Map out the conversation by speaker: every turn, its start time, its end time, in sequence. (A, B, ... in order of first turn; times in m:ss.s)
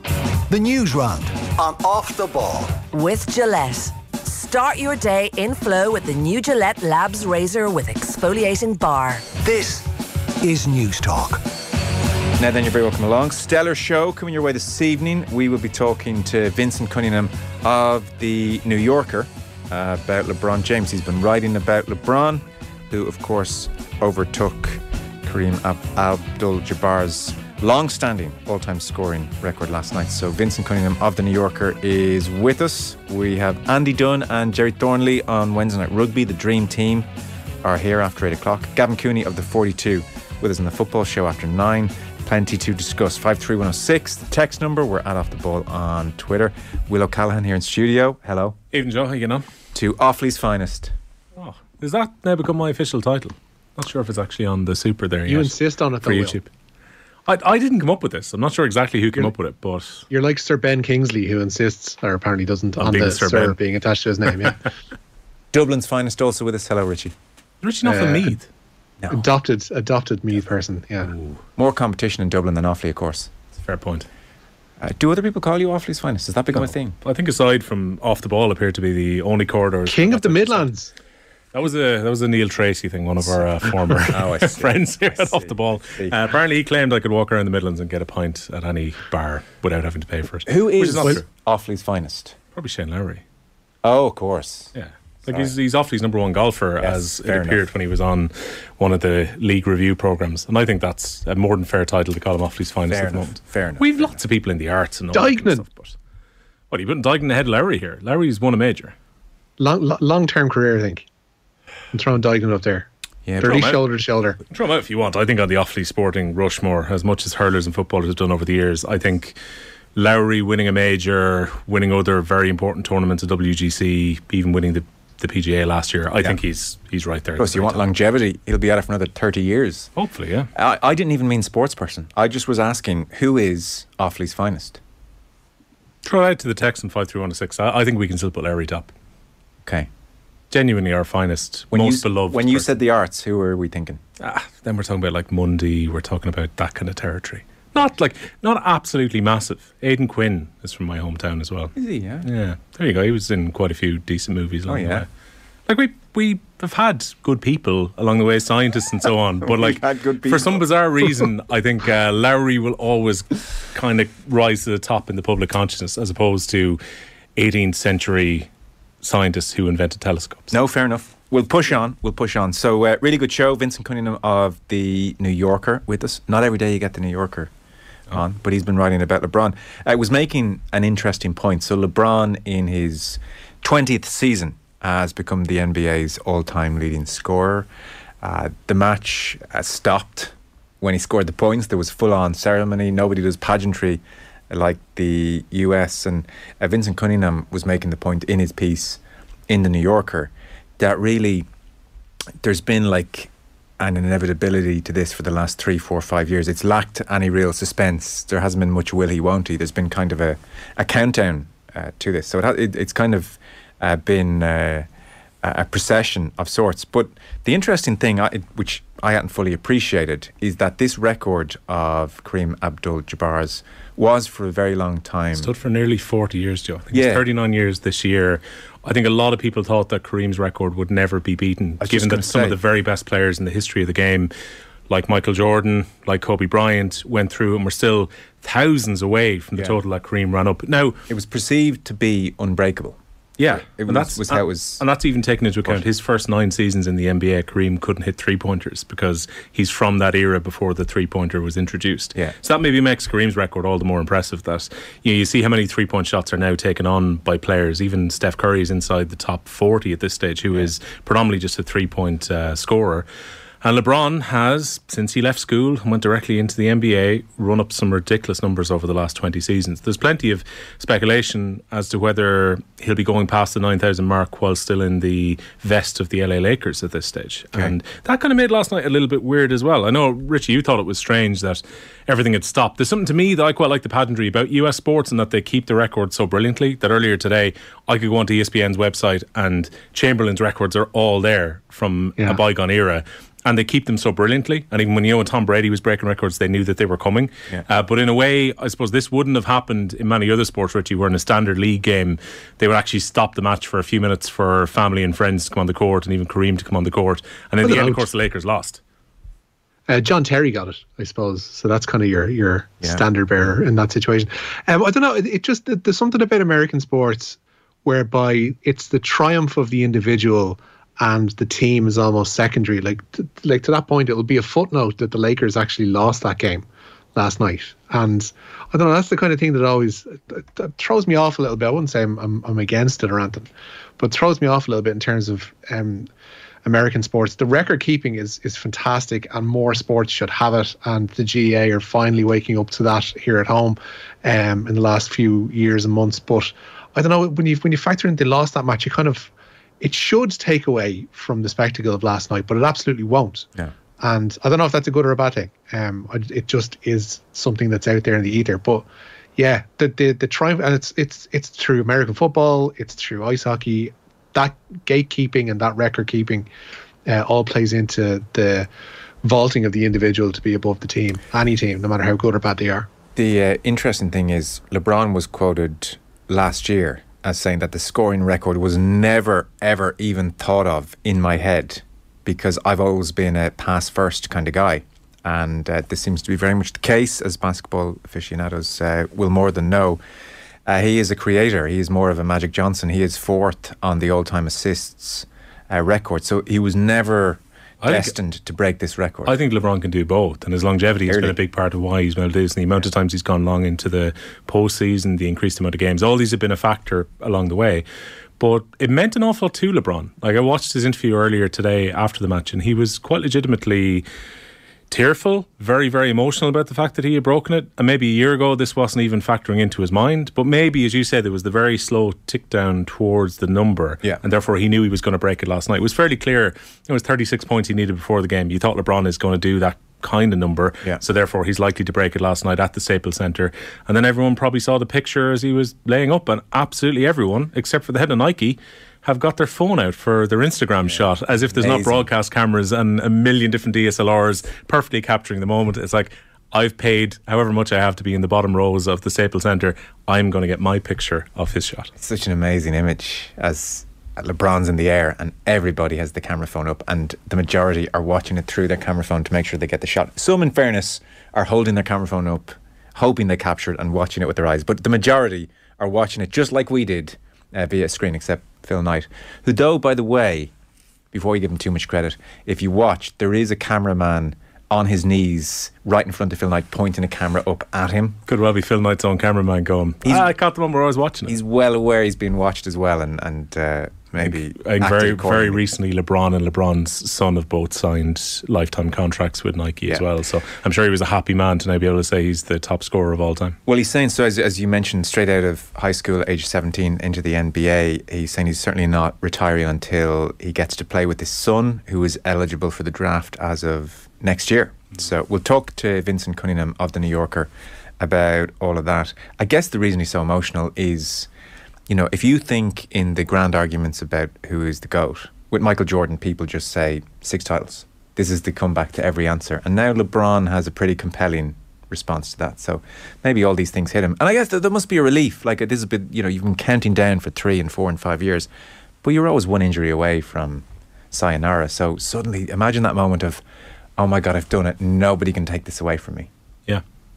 0:00.5-0:02.8 A
0:02.9-0:09.3 B
0:09.3-0:11.4 A
0:12.4-0:37.1 C
0:37.6-0:48.6 C
0:48.7-0:49.4 D
0:49.7-0:50.9 C
0:51.4-0:56.5 D
0:55.3-0:56.4 E
0:57.3-1:00.0 D
1:00.1-1:04.6 E
1:02.8-1:03.6 D
1:05.5-1:07.1 C
1:07.6-1:08.5 D
1:07.8-1:08.3 E
1:09.1-1:11.1 E
1:11.1-1:11.4 D
1:11.6-1:13.3 C
1:13.6-1:14.1 D
1:14.8-1:17.0 C
1:16.6-1:20.7 D
1:19.9-1:20.9 E
1:21.5-1:31.2 D
1:23.3-1:26.2 C
1:30.4-1:32.4 C
1:32.5-1:33.2 D
1:33.8-1:35.5 C
1:34.7-1:45.9 D
1:36.8-1:37.7 C
1:42.9-1:44.2 C
1:45.1-1:45.6 E
1:46.7-1:48.9 D
1:49.6-1:51.0 E
1:51.9-1:52.9 E
1:53.2-1:53.7 C
1:53.4-1:54.4 E
1:53.4-1:53.8 D
1:54.5-1:59.4 D
1:59.9-2:07.8 D
2:07.4-2:09.9 C
2:10.0-2:10.5 D
2:10.5-2:14.8 C
2:16.0-2:18.9 D
2:20.5-2:22.8 D
2:21.7-2:24.0 C
2:24.2-2:35.1 D
2:31.7-2:32.3 C
2:34.7-2:35.0 C
2:35.7-2:46.8 D
2:39.4-2:41.2 C
2:47.4-2:48.5 D
2:49.0-2:50.5 D
2:50.5-2:57.5 C
2:58.1-3:07.7 C
3:08.2-3:21.4 C
3:22.4-3:34.9 C
3:35.4-3:45.5 C
3:45.3-3:54.3 D
3:46.9-3:47.2 C
3:51.8-3:52.6 C
3:54.9-4:01.0 D
4:01.1-4:04.8 C
4:03.4-4:23.0 D
4:23.6-5:08.8 D
5:07.6-5:08.0 E
5:09.9-5:33.5 E
5:34.0-5:36.1 E
5:36.6-5:49.3 E
5:49.8-5:53.5 E
5:54.0-5:58.8 E
5:59.4-6:06.5 E
6:07.0-6:08.7 E
6:09.2-6:12.9 E
6:13.1-6:30.0 C
6:30.6-6:39.4 C
6:37.8-6:38.1 D
6:39.2-6:47.8 D
6:41.1-6:41.4 C
6:48.4-6:54.0 D
6:54.9-7:31.9 D
7:20.9-7:22.1 C
7:32.0-7:50.5 C
7:51.1-7:58.2 C
7:58.2-8:01.4 D
8:00.0-8:00.3 C
8:01.3-8:05.6 C
8:04.2-8:13.6 D
8:13.6-8:31.3 C
8:31.9-8:48.5 C
8:49.0-8:53.4 C
8:54.0-8:56.3 C